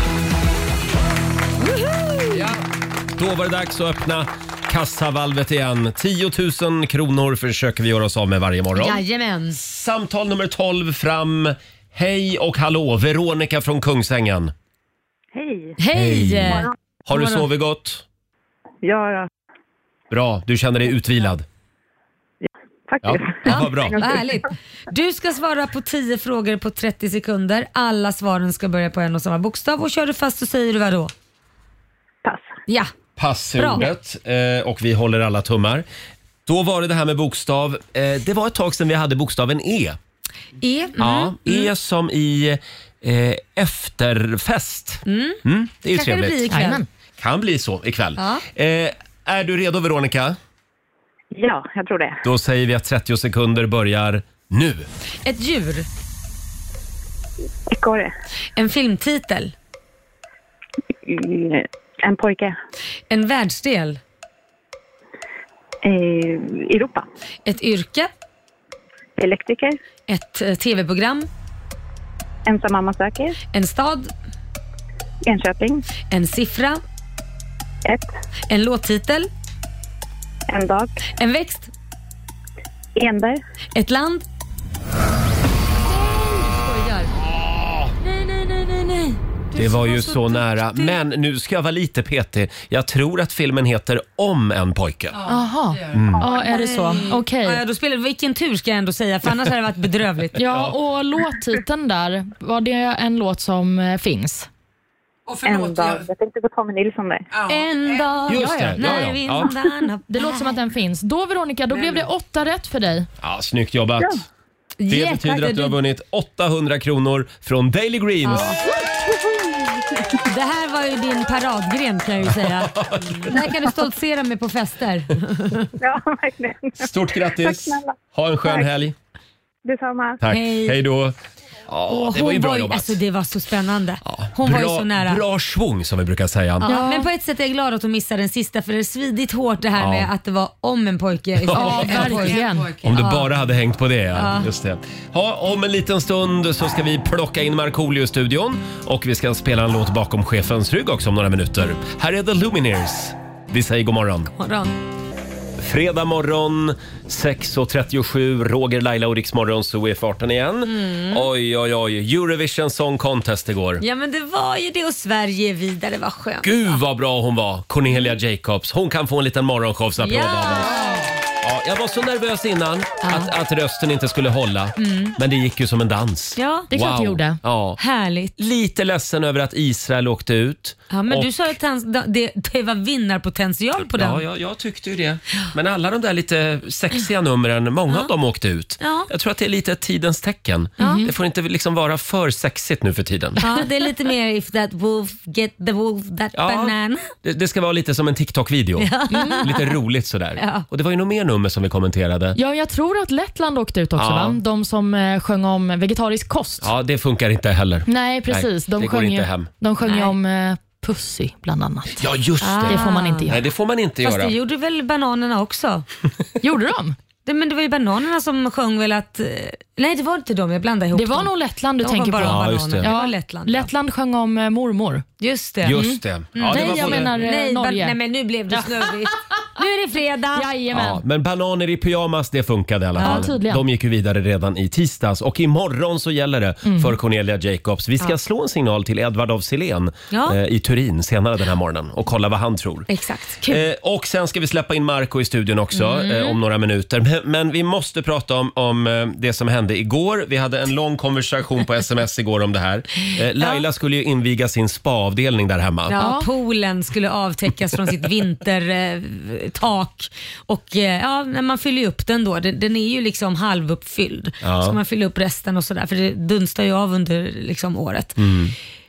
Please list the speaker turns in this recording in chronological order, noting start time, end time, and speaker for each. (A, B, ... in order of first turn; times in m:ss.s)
0:01.6-0:02.4 A
0:03.2-0:09.0 B
0:08.7-0:09.6 A
0:09.5-0:14.5 B
0:15.8-0:17.5 A
0:15.9-0:18.0 B
0:18.8-0:19.2 C
0:20.1-0:21.4 B
0:22.9-0:24.1 C
0:23.0-0:24.0 B
0:23.4-0:31.1 A
0:33.2-0:35.9 B
0:33.6-0:33.9 A
0:36.4-0:40.0 B
0:40.6-0:41.7 A
0:41.0-0:46.4 B
0:45.1-0:45.4 A
0:45.9-0:46.8 A
0:46.5-0:46.9 D
0:47.2-0:50.4 B
0:48.2-0:48.4 A
0:51.3-0:52.2 C
0:52.2-0:54.9 B
0:55.2-0:55.9 A
0:57.7-0:58.1 C
0:58.6-0:59.5 A
1:01.1-1:02.5 C
1:03.1-1:04.0 A
1:05.8-1:07.0 C
1:07.4-1:08.1 A
1:09.2-1:09.8 C
1:10.1-1:11.3 A
1:12.5-1:13.4 C
1:13.5-1:14.1 A
1:15.2-1:15.8 C
1:16.1-1:16.8 A
1:18.5-1:19.3 A
1:20.5-1:20.9 C
1:21.2-1:21.7 A
1:23.0-1:23.4 C
1:23.8-1:24.2 A
1:25.9-1:27.1 A
1:28.0-1:31.0 A
1:29.6-1:35.2 B
1:35.1-1:36.2 E
1:35.3-1:37.6 D
1:35.9-1:36.2 B
1:36.3-1:40.3 A
1:40.4-1:44.5 D
1:40.4-1:40.7 B
1:45.3-1:46.1 E
1:45.4-1:47.2 C
1:47.3-1:48.3 E
1:47.5-1:50.4 A
1:48.3-1:49.5 B
1:48.3-1:49.1 D
1:50.1-1:53.1 D
1:51.7-1:52.1 E
1:53.2-1:54.2 B
1:54.8-1:55.8 A
1:54.9-1:58.6 B
1:58.2-1:58.6 A
2:00.2-2:05.7 A
2:02.2-2:03.5 B
2:05.8-2:06.9 C
2:06.8-2:08.9 B
2:07.4-2:08.6 C
2:09.6-2:10.2 C
2:10.2-2:11.1 B
2:10.3-2:10.8 A
2:11.7-2:13.0 B
2:11.9-2:15.2 A
2:14.1-2:16.7 B
2:16.6-2:17.1 D
2:16.6-2:23.3 A
2:19.8-2:20.1 B
2:21.4-2:21.9 B
2:21.5-2:22.7 D
2:21.8-2:22.9 E
2:22.8-2:34.3 B
2:24.1-2:24.5 A
2:34.3-2:34.7 A
2:35.6-2:43.8 B
2:40.6-2:41.3 A
2:43.8-2:46.8 A
2:46.4-2:50.9 B
2:47.9-2:48.1 A
2:50.0-2:51.1 A
2:51.4-2:57.8 B
2:53.0-2:53.3 A
2:54.8-2:55.2 A
2:56.4-2:56.7 A
2:56.7-2:57.4 D
2:57.8-2:58.3 A
2:58.4-3:01.4 B
3:00.9-3:04.2 A
3:03.9-3:13.4 B
3:08.8-3:09.1 A
3:10.8-3:11.1 A
3:10.8-3:11.1 D
3:13.4-3:17.1 A
3:16.4-3:18.9 B
3:18.8-3:19.8 A
3:19.1-3:19.5 D
3:19.4-3:22.4 B
3:20.4-3:20.6 A
3:22.4-3:26.7 D
3:24.0-3:24.4 B
3:26.6-3:29.5 B
3:27.9-3:32.1 D
3:29.8-3:30.1 A
3:32.0-3:34.3 B
3:32.4-3:33.3 A
3:32.6-3:33.4 D
3:34.0-3:35.9 A
3:36.4-3:37.0 D
3:37.2-3:41.3 A
3:40.9-3:45.0 D
3:41.8-3:43.7 A
3:42.2-3:42.9 B
3:45.2-3:45.8 A
3:45.6-3:47.2 B
3:45.7-3:47.9 D
3:46.4-3:50.5 A
3:48.5-3:49.1 D
3:50.4-3:51.0 D
3:50.7-4:02.9 B
3:53.0-3:53.3 A
3:53.0-3:53.6 D
3:56.6-3:56.9 D
4:00.1-4:00.4 A
4:02.9-4:03.6 A
4:03.5-4:16.0 B
4:05.7-4:06.4 A
4:13.4-4:13.6 A
4:15.9-4:28.2 A
4:16.0-4:16.3 D
4:24.4-4:24.8 B
4:28.2-4:28.5 B